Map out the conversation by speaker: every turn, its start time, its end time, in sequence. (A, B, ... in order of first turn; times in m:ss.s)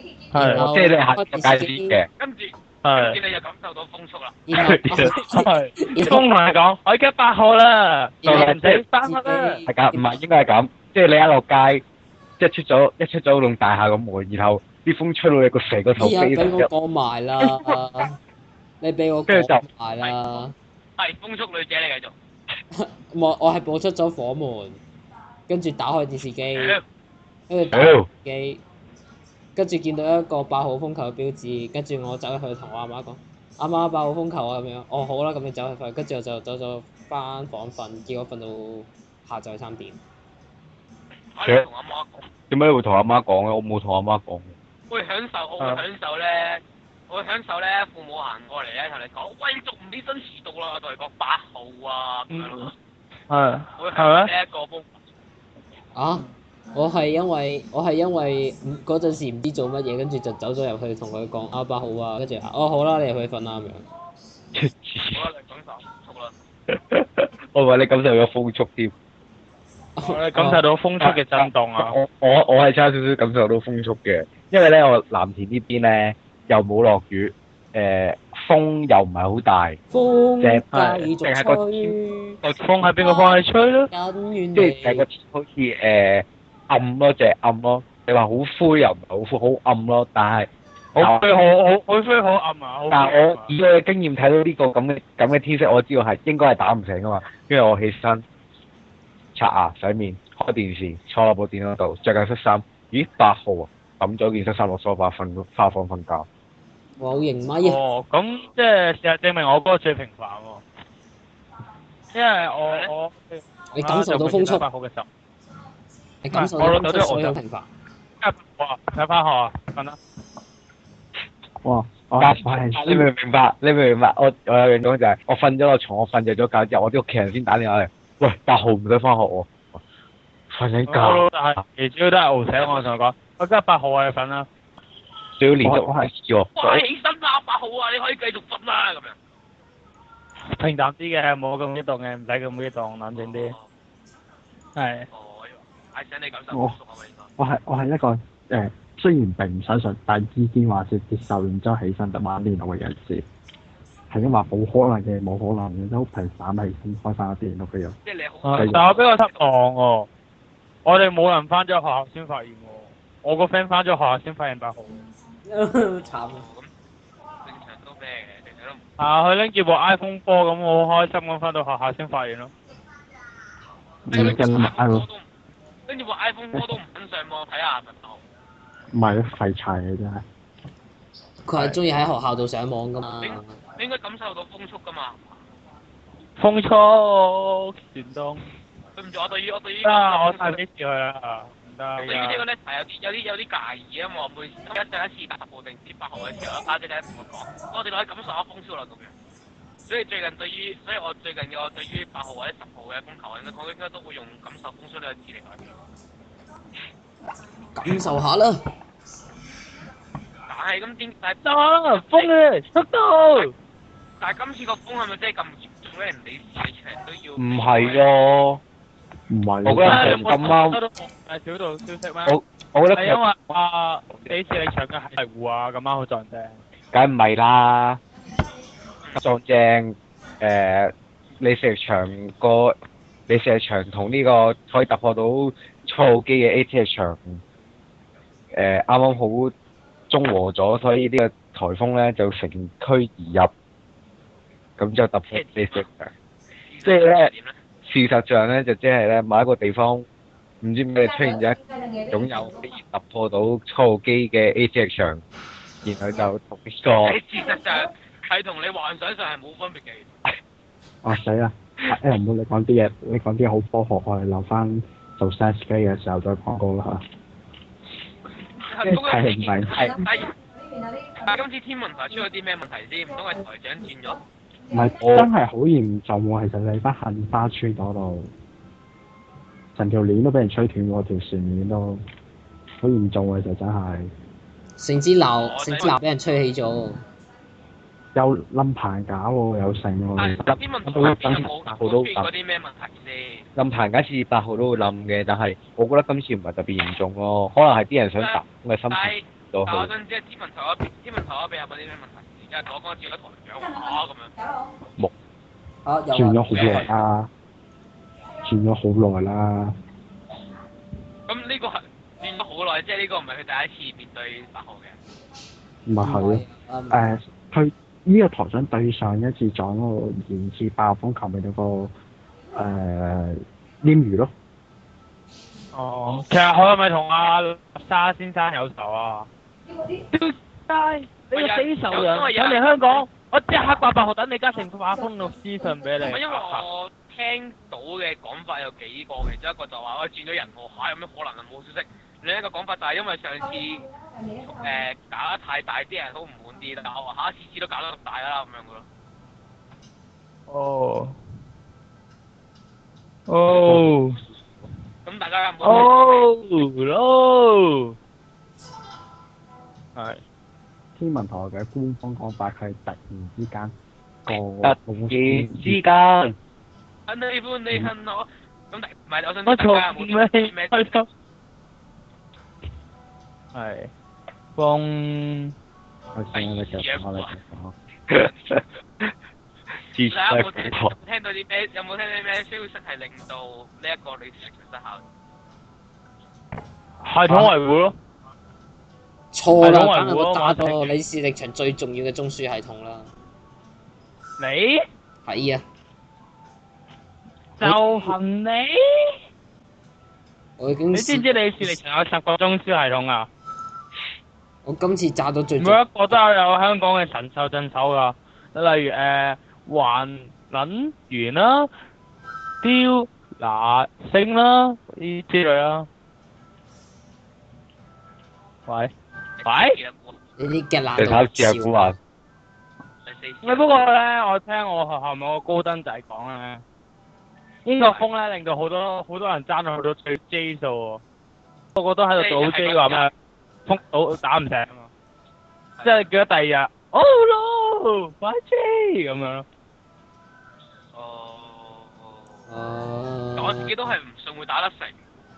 0:00.3-0:00.7 A
0:00.3-0:02.0 B
0:00.4-0:02.1 C
0:02.2-0:04.4 D
0:02.8-0:03.2 A
0:04.5-0:06.3 B
0:04.5-0:05.2 C
0:04.7-0:09.6 A
0:08.2-0:10.2 B
0:08.2-0:08.8 C
0:09.6-0:11.8 C
0:12.4-0:16.7 C
0:16.0-0:18.2 B
0:17.4-0:17.7 C
0:18.8-0:20.5 B
0:19.3-0:19.6 C
0:21.0-0:22.1 D
0:22.7-0:24.8 B
0:25.5-0:26.8 B
0:26.5-0:26.8 D
0:27.5-0:28.6 B
0:27.7-0:28.1 C
0:29.6-0:40.0 B
0:41.3-0:42.2 D
0:42.5-0:44.5 C
0:44.9-0:52.7 D
0:52.3-0:52.7 A
0:53.3-0:54.3 A
0:53.8-0:54.9 D
0:55.9-1:03.8 B
1:04.5-1:05.2 C
1:05.1-1:06.3 D
1:06.7-1:08.9 C
1:10.0-1:10.6 B
1:10.0-1:12.0 A
1:11.0-1:19.8 C
1:19.9-1:22.4 B
1:20.4-1:22.7 C
1:20.7-1:21.0 A
1:22.6-1:23.9 A
1:23.0-1:25.0 B
1:24.5-1:31.3 C
1:30.9-1:33.5 A
1:32.9-1:38.2 C
1:39.3-1:46.3 C
1:47.0-1:47.8 B
1:47.6-1:50.6 A
1:52.1-1:55.1 A
1:52.4-1:52.9 D
1:53.7-1:54.6 B
1:56.2-1:57.7 B
1:56.3-1:57.4 A
1:58.2-2:00.0 A
2:01.6-2:03.1 E
2:02.2-2:09.5 C
2:10.5-2:11.3 C
2:10.9-2:14.5 A
2:12.6-2:12.9 D
2:15.4-2:16.8 C
2:15.6-2:16.1 E
2:16.6-2:19.2 D
2:20.5-2:23.6 A
2:23.1-2:23.6 D
2:24.8-2:25.1 A
2:25.1-2:27.3 D
2:26.5-2:26.8 E
2:27.4-2:33.2 E
2:34.1-2:38.0 E
2:38.0-2:39.5 D
2:38.4-2:40.1 A
2:38.6-2:38.9 E
2:40.8-2:45.0 A
2:45.5-2:46.4 B
2:46.3-2:46.7 D
2:47.4-2:48.8 D
2:49.0-2:52.5 A
2:54.1-2:55.0 E
2:54.1-2:55.2 D
2:55.9-2:58.2 D
2:58.9-3:00.2 E
3:01.4-3:03.6 B
3:03.2-3:05.4 D
3:06.4-3:08.4 A
3:09.0-3:10.6 D
3:09.8-3:12.4 A
3:12.0-3:19.1 D
3:19.9-3:25.8 D
3:27.8-3:28.6 B
3:30.5-3:32.3 D
3:31.4-3:33.5 A
3:34.2-3:38.1 D
3:37.4-3:38.6 C
3:39.3-3:40.3 E
3:39.6-3:40.8 C
3:39.8-3:42.3 A
3:42.2-3:43.2 C
3:42.9-3:46.6 A
3:44.1-3:44.7 C
3:46.9-3:48.0 C
3:49.2-3:52.8 C
3:53.3-3:57.4 C
3:58.5-3:59.5 C
4:00.1-4:03.5 C
4:04.8-4:06.1 C
4:05.3-4:05.8 D
4:06.6-4:07.6 D
4:06.8-4:07.3 C
4:07.8-4:10.0 C
4:10.6-4:15.2 C
4:15.8-4:17.2 C
4:16.9-4:20.1 D
4:21.0-4:27.0 E
4:28.6-4:30.4 D
4:28.8-4:30.0 E
4:31.1-4:34.2 D
4:34.7-4:38.3 E
4:35.0-4:35.3 C
4:39.7-4:42.0 E
4:42.8-4:44.1 E
4:44.8-4:47.0 B
4:45.4-4:46.0 D
4:48.1-4:52.1 E
4:50.2-4:53.5 D
4:50.9-4:52.2 C
4:53.6-4:59.9 C
4:58.2-5:04.3 D
5:05.8-5:06.9 B
5:06.1-5:07.3 E
5:06.5-5:06.9 D
5:08.4-5:09.8 E
5:11.3-5:15.0 D
5:15.8-5:21.9 E
5:16.0-5:17.0 B
5:22.5-5:24.3 E
5:25.7-5:29.3 A
5:30.1-5:36.6 A
5:31.3-5:33.0 D
5:36.0-5:48.8 D
5:50.5-5:51.2 A
5:53.3-5:54.2 A
5:53.7-5:53.9 E
5:55.0-5:56.1 D
5:55.6-5:58.0 A
6:00.0-6:00.2 A
6:01.0-6:03.7 E
6:04.2-6:05.8 E
6:04.6-6:06.4 C
6:07.1-6:10.9 D
6:09.4-6:11.1 A
6:13.5-6:13.9 A
6:14.6-6:15.5 A
6:16.1-6:17.7 E
6:16.3-6:17.3 D
6:18.1-6:19.1 C
6:18.1-6:18.6 D
6:19.9-6:20.9 C
6:20.1-6:25.0 D
6:27.0-6:27.9 A
6:29.3-6:33.1 B
6:29.6-6:31.0 A
6:34.4-6:34.8 A
6:35.2-6:35.6 B
6:37.6-6:39.2 A
6:37.6-6:38.0 B
6:40.6-6:41.8 B
6:40.9-6:43.3 A
6:44.6-6:45.8 B
6:45.6-6:51.7 A
6:52.6-6:55.9 A
6:58.7-6:58.9 A
6:59.4-7:00.2 D
6:59.4-6:59.8 A
7:00.4-7:01.9 B
7:01.0-7:02.0 C
7:03.0-7:03.7 D
7:03.4-7:06.6 A
7:07.6-7:11.0 A
7:07.8-7:08.0 D
7:11.7-7:13.1 A
7:12.2-7:13.1 D
7:13.6-7:14.9 A
7:15.8-7:16.1 D
7:15.8-7:19.4 A
7:20.9-7:22.2 D
7:22.5-7:23.9 B
7:23.3-7:25.0 D